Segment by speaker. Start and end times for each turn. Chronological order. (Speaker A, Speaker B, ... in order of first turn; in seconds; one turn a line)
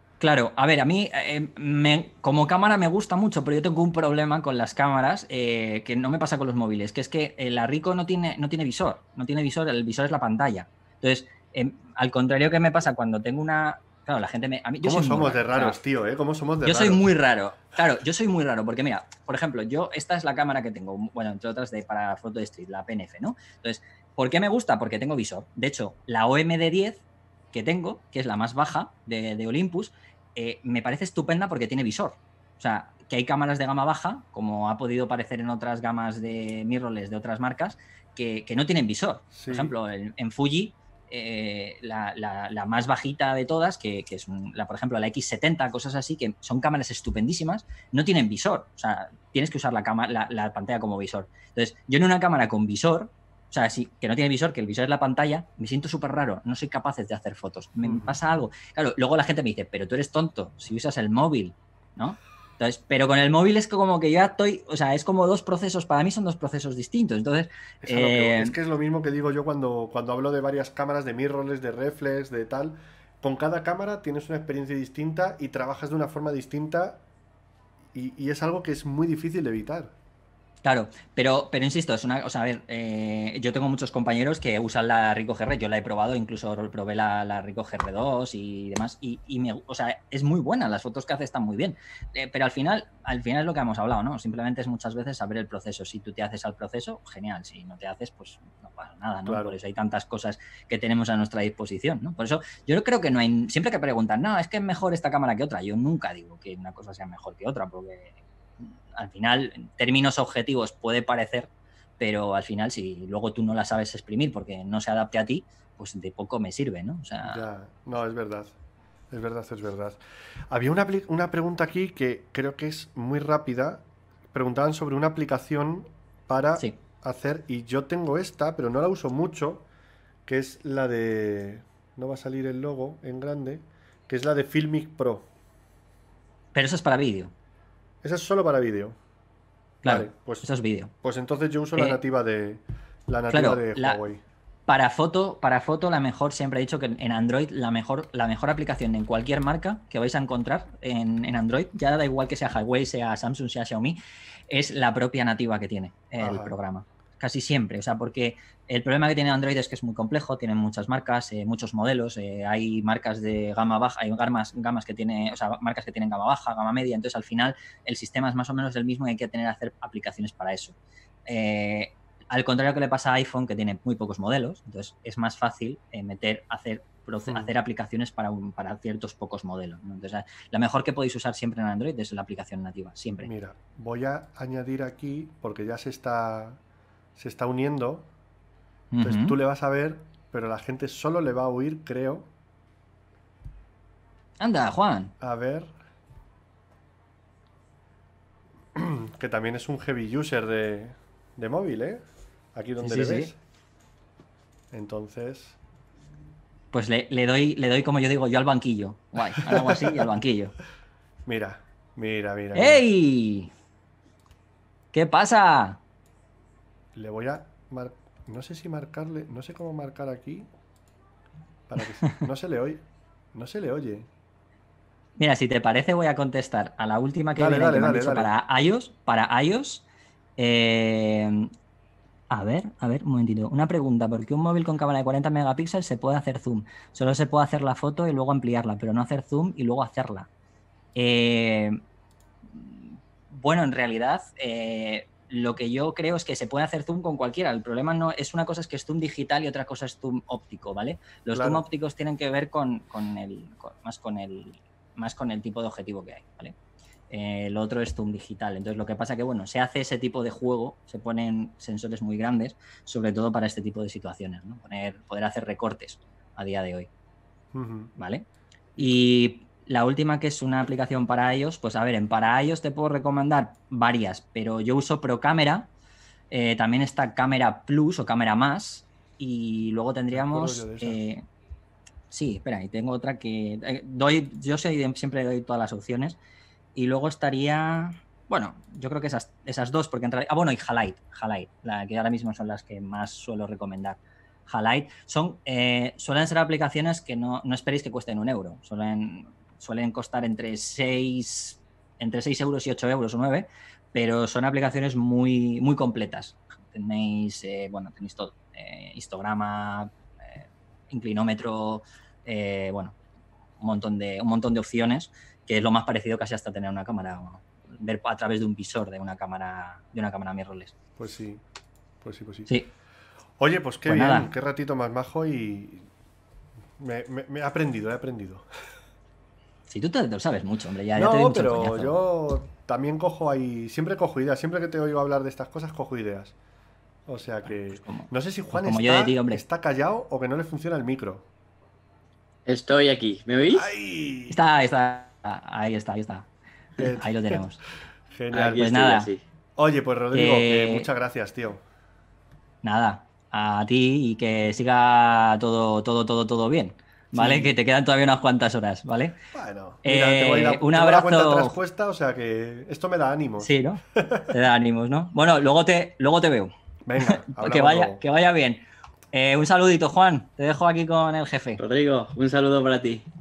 Speaker A: 0.2-15.8
Speaker B: 14.8-17.1
Speaker A: 16.6-68.5
Speaker B: 39.3-39.7
Speaker B: 57.8-58.1
Speaker B: 67.8-77.0
Speaker B: 77.9-79.9
Speaker A: 80.6-117.5
Speaker B: 99.3-99.6
Speaker B: 117.2-118.5
Speaker B: 119.1-129.7
Speaker B: 130.3-135.3
Speaker A: 136.5-137.3
Speaker B: 138.0-139.0
Speaker B: 139.8-140.5
Speaker A: 139.8-140.9
Speaker B: 141.0-144.2
Speaker A: 143.3-144.0
Speaker A: 144.7-154.0
Speaker A: 154.5-170.8
Speaker B: 156.2-156.5
Speaker A: 171.3-183.3
Speaker B: 177.2-177.5
Speaker B: 183.2-186.6
Speaker B: 187.2-188.1
Speaker A: 188.9-189.4
Speaker B: 189.0-192.3
Speaker A: 194.4-195.1
Speaker B: 195.2-195.8
Speaker B: 198.8-202.0
Speaker B: 202.6-203.4
Speaker A: 202.8-203.3
Speaker B: 204.7-205.6
Speaker A: 206.7-210.5
Speaker B: 209.4-210.0
Speaker B: 211.2-212.8
Speaker A: 212.6-213.5
Speaker A: 214.9-215.8
Speaker B: 216.9-220.5
Speaker B: 221.7-224.1
Speaker A: 225.2-229.8
Speaker B: 227.4-228.3
Speaker A: 230.4-231.5
Speaker A: 232.3-240.3
Speaker A: 240.9-241.8
Speaker A: 242.5-256.6
Speaker B: 251.3-251.7
Speaker A: 257.1-266.9
Speaker B: 267.5-267.9
Speaker A: 267.9-268.2
Speaker A: 268.8-275.7
Speaker A: 276.3-281.2
Speaker B: 280.1-281.0
Speaker A: 282.1-286.2
Speaker A: 286.8-313.0
Speaker A: 313.6-320.7
Speaker B: 321.0-321.4
Speaker B: 322.0-322.5
Speaker B: 323.4-325.9
Speaker A: 323.9-324.3
Speaker B: 326.8-328.5
Speaker A: 329.7-332.0
Speaker B: 330.9-336.3
Speaker B: 337.1-341.3
Speaker A: 337.7-339.4
Speaker C: 342.5-343.7
Speaker B: 343.5-344.4
Speaker A: 344.3-347.6
Speaker B: 346.8-347.4
Speaker B: 348.1-348.9
Speaker C: 348.3-349.2
Speaker A: 348.5-349.1
Speaker B: 349.6-351.6
Speaker A: 350.1-350.9
Speaker A: 352.6-359.2
Speaker B: 357.1-357.5
Speaker B: 359.3-364.3
Speaker A: 359.8-361.6
Speaker A: 363.4-371.6
Speaker B: 366.9-368.0
Speaker C: 371.6-373.1